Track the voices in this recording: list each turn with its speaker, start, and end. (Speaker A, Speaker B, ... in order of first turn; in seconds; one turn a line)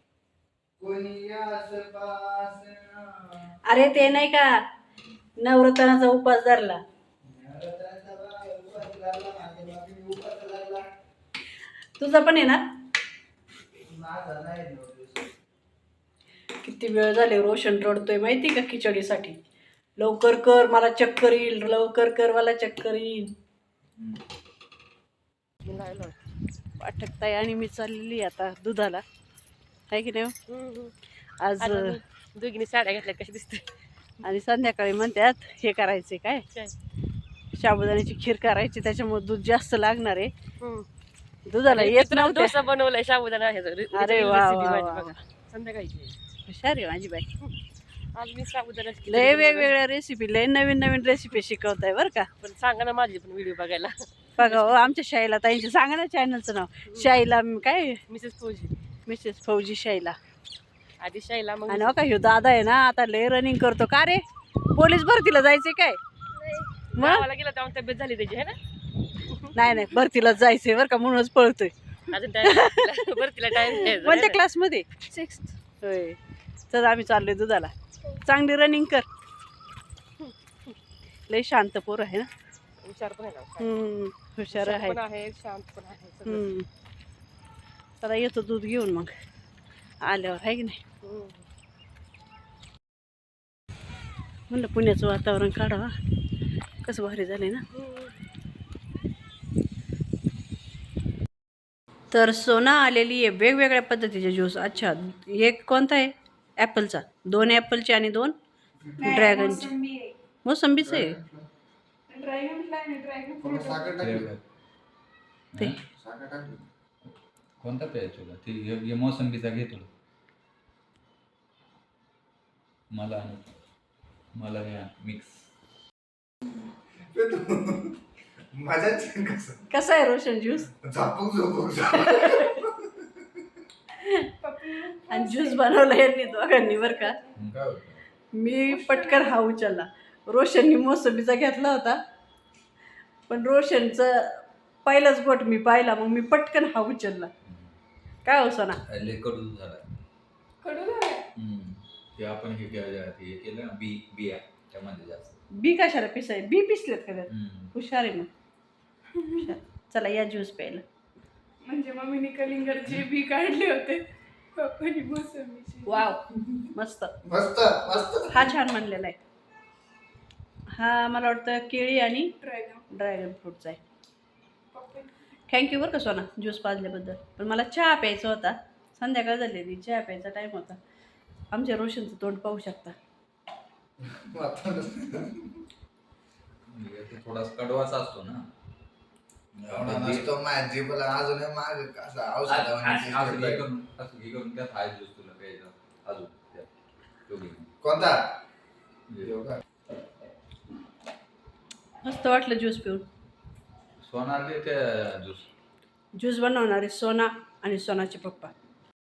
Speaker A: 0.8-3.5
Speaker B: 3.6-4.5
Speaker B: 5.4-6.8
Speaker A: 7.2-10.9
Speaker B: 12.0-12.6
Speaker A: 13.8-15.3
Speaker B: 16.6-19.4
Speaker B: 20.0-23.3
Speaker C: 25.6-26.2
Speaker B: 26.8-29.0
Speaker B: 29.9-30.3
Speaker C: 30.5-30.9
Speaker B: 31.4-32.0
Speaker C: 31.6-33.6
Speaker B: 34.2-36.4
Speaker B: 37.5-40.3
Speaker C: 40.6-40.9
Speaker B: 41.5-42.6
Speaker C: 41.7-46.1
Speaker B: 43.9-45.1
Speaker B: 46.5-47.2
Speaker C: 48.1-49.7
Speaker B: 49.0-52.3
Speaker C: 52.4-54.8
Speaker B: 54.4-58.0
Speaker C: 58.1-58.7
Speaker B: 59.0-60.2
Speaker C: 61.0-62.0
Speaker B: 61.7-64.2
Speaker B: 64.7-66.0
Speaker C: 67.0-68.6
Speaker B: 67.0-67.2
Speaker B: 69.5-71.7
Speaker C: 72.1-74.4
Speaker B: 72.5-73.0
Speaker B: 73.5-76.2
Speaker B: 76.7-77.7
Speaker B: 78.2-79.0
Speaker B: 81.3-82.3
Speaker C: 82.8-83.7
Speaker B: 83.6-85.0
Speaker C: 84.5-86.5
Speaker B: 86.2-86.7
Speaker B: 88.0-89.1
Speaker B: 90.0-90.8
Speaker C: 91.0-91.4
Speaker B: 94.5-95.9
Speaker B: 96.8-97.7
Speaker B: 102.1-108.3
Speaker A: 108.8-109.2
Speaker D: 109.0-110.1
Speaker B: 109.0-109.7
Speaker B: 110.4-111.2
Speaker A: 110.8-111.5
Speaker D: 112.1-114.0
Speaker A: 113.4-114.3
Speaker E: 114.0-114.4
Speaker E: 115.5-115.8
Speaker A: 115.9-116.6
Speaker E: 117.6-119.9
Speaker E: 122.9-123.5
Speaker E: 124.3-125.4
Speaker A: 127.1-128.0
Speaker A: 128.5-129.7
Speaker B: 129.7-130.7
Speaker A: 130.7-133.1
Speaker B: 131.9-132.6
Speaker B: 133.9-134.3
Speaker D: 134.4-137.3
Speaker B: 135.1-137.2
Speaker E: 137.3-138.0
Speaker B: 138.3-142.0
Speaker D: 138.5-139.3
Speaker B: 143.3-147.3
Speaker B: 148.2-148.8
Speaker E: 148.9-149.8
Speaker D: 150.6-151.2
Speaker E: 151.3-155.4
Speaker B: 155.5-158.3
Speaker E: 157.3-157.7
Speaker B: 159.3-160.8
Speaker D: 161.6-164.0
Speaker B: 163.4-163.9
Speaker D: 164.5-166.1
Speaker B: 165.8-167.1
Speaker A: 167.2-168.5
Speaker B: 168.3-169.2
Speaker B: 170.7-173.8
Speaker D: 172.4-172.8
Speaker D: 174.8-175.1
Speaker B: 175.5-180.8
Speaker B: 181.5-182.9
Speaker A: 184.0-185.6
Speaker E: 186.7-188.5
Speaker E: 189.6-190.3
Speaker A: 189.7-193.6
Speaker E: 192.5-196.7
Speaker E: 197.3-197.7
Speaker A: 197.8-198.2
Speaker A: 199.2-199.6
Speaker B: 202.0-203.0
Speaker E: 204.0-205.5
Speaker B: 206.1-208.5